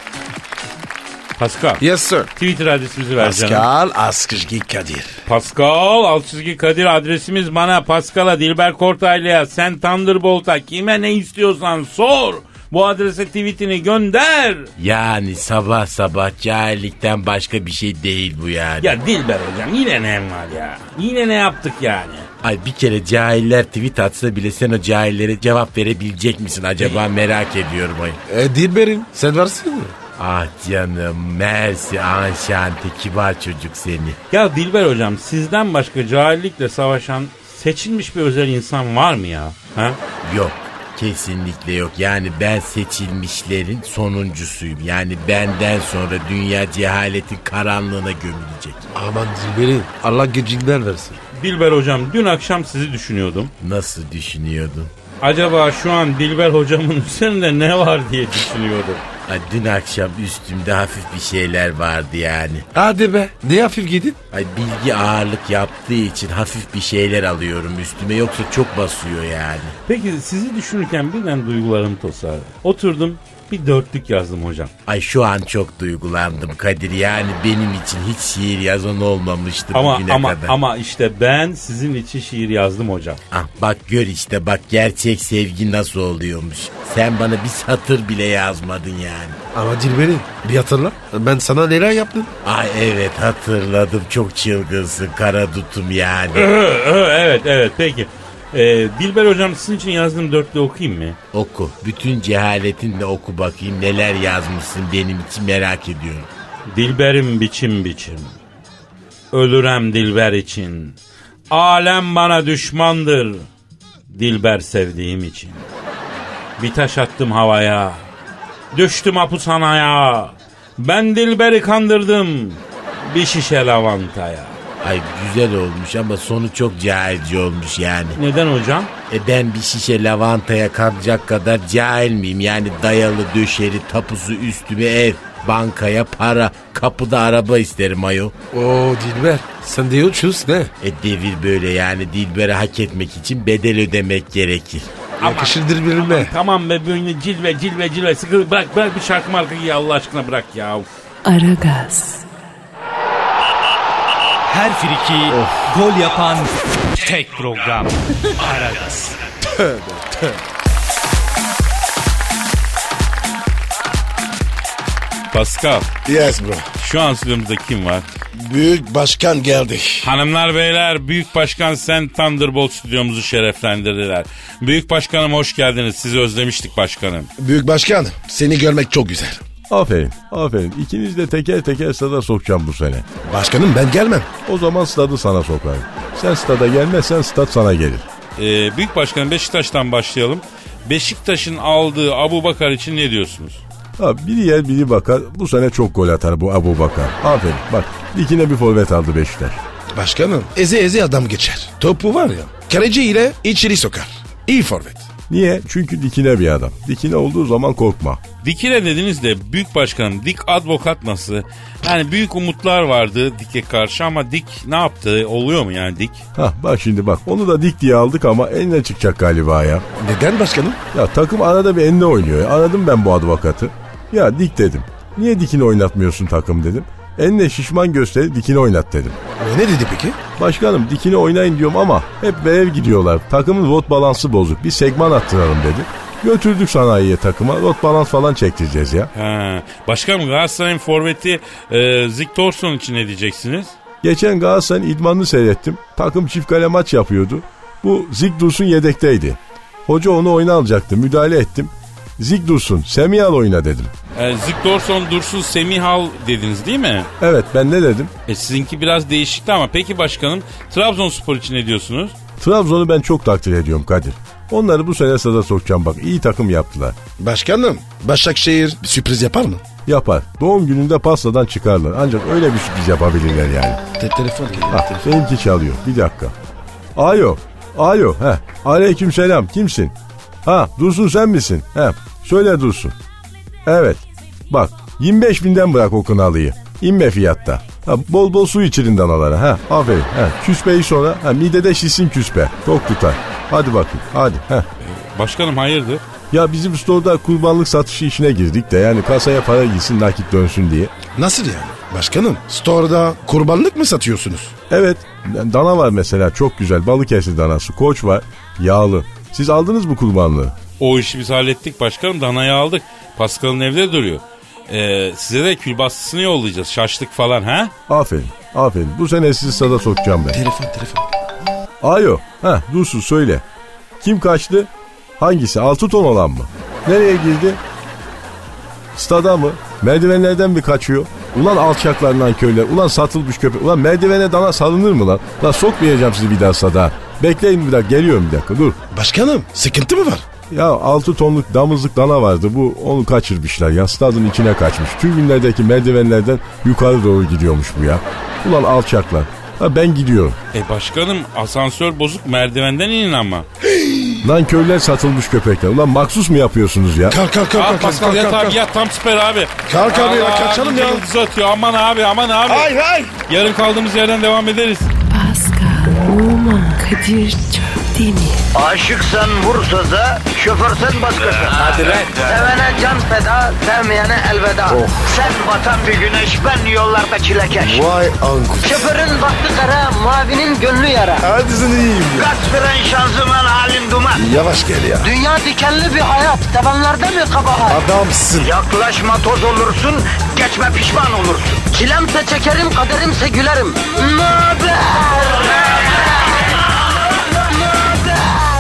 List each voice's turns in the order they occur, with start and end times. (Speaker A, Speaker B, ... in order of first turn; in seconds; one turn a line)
Speaker A: 1.4-1.8
Speaker B: 1.8-2.3
Speaker A: 2.4-3.7
Speaker B: 3.2-5.2
Speaker A: 5.3-14.7
Speaker C: 14.8-18.9
Speaker A: 18.8-22.3
Speaker C: 22.4-28.2
Speaker B: 28.3-29.9
Speaker C: 30.2-34.2
Speaker A: 34.3-40.0
Speaker C: 40.2-48.8
Speaker B: 49.0-51.2
Speaker A: 51.3-53.5
Speaker C: 53.6-54.9
Speaker A: 55.2-59.0
Speaker C: 59.3-62.7
Speaker B: 62.7-64.2
Speaker C: 64.3-69.8
Speaker A: 69.9-74.7
Speaker C: 74.9-80.5
Speaker A: 79.7-83.2
Speaker C: 83.3-89.4
Speaker B: 89.5-92.3
Speaker C: 92.4-96.5
Speaker A: 96.3-101.2
Speaker C: 101.3-106.3
Speaker A: 106.7-108.4
Speaker A: 109.3-111.0
Speaker A: 111.5-113.5
Speaker A: 114.1-115.7
Speaker A: 116.6-118.1
Speaker A: 118.7-124.6
Speaker C: 124.8-128.2
Speaker A: 128.2-128.9
Speaker C: 129.1-138.3
Speaker B: 138.5-140.7
Speaker C: 140.8-144.9
Speaker A: 145.2-150.9
Speaker B: 145.2-146.3
Speaker D: 151.2-152.3
Speaker E: 154.5-159.2
Speaker B: 155.3-155.7
Speaker B: 159.5-160.4
Speaker A: 165.3-165.9
Speaker B: 166.1-166.7
Speaker A: 166.8-168.1
Speaker B: 168.3-170.1
Speaker A: 170.0-177.3
Speaker B: 177.4-179.4
Speaker F: 179.7-183.1
Speaker B: 183.2-184.3
Speaker F: 184.4-188.1
Speaker A: 188.4-193.6
Speaker F: 194.0-199.6
Speaker B: 199.9-205.1
Speaker F: 205.3-208.2
Speaker A: 208.4-216.2
Speaker F: 216.3-219.8
Speaker B: 220.0-220.8
Speaker F: 220.9-229.2
Speaker B: 229.4-230.2
Speaker F: 230.4-239.1
Speaker A: 239.1-243.8
Speaker F: 244.0-253.9
Speaker A: 254.2-257.1
Speaker F: 257.2-258.1
Speaker A: 258.3-262.2
Speaker F: 262.4-267.0
Speaker B: 267.2-269.6
Speaker F: 269.9-273.8
Speaker B: 274.0-275.2
Speaker F: 274.7-276.3
Speaker F: 277.0-279.9
Speaker F: 280.4-282.9
Speaker F: 283.7-294.7
Speaker A: 294.8-296.0
Speaker F: 296.3-300.9
Speaker B: 301.1-304.5
Speaker F: 304.7-310.6
Speaker A: 310.8-317.7
Speaker F: 317.9-320.4
Speaker B: 320.3-321.1
Speaker F: 321.8-323.4
Speaker F: 324.0-327.6
Speaker F: 328.9-338.8
Speaker B: 338.9-340.3
Speaker F: 340.5-350.4
Speaker A: 350.5-353.5
Speaker B: 353.6-354.2
Speaker F: 354.2-357.2
Speaker B: 357.1-358.6
Speaker A: 357.5-362.7
Speaker B: 359.7-361.1
Speaker B: 362.5-363.1
Speaker A: 363.3-364.9
Speaker D: 365.1-368.4
Speaker G: 368.6-377.9
Speaker B: 371.6-372.0
Speaker E: 371.8-372.1
Speaker B: 374.7-375.2
Speaker B: 377.6-378.9
Speaker G: 378.6-381.3
Speaker B: 381.2-382.3
Speaker G: 382.2-384.2
Speaker B: 384.1-385.1
Speaker G: 385.0-387.8
Speaker B: 387.7-388.5
Speaker G: 388.4-396.3
Speaker G: 397.5-398.4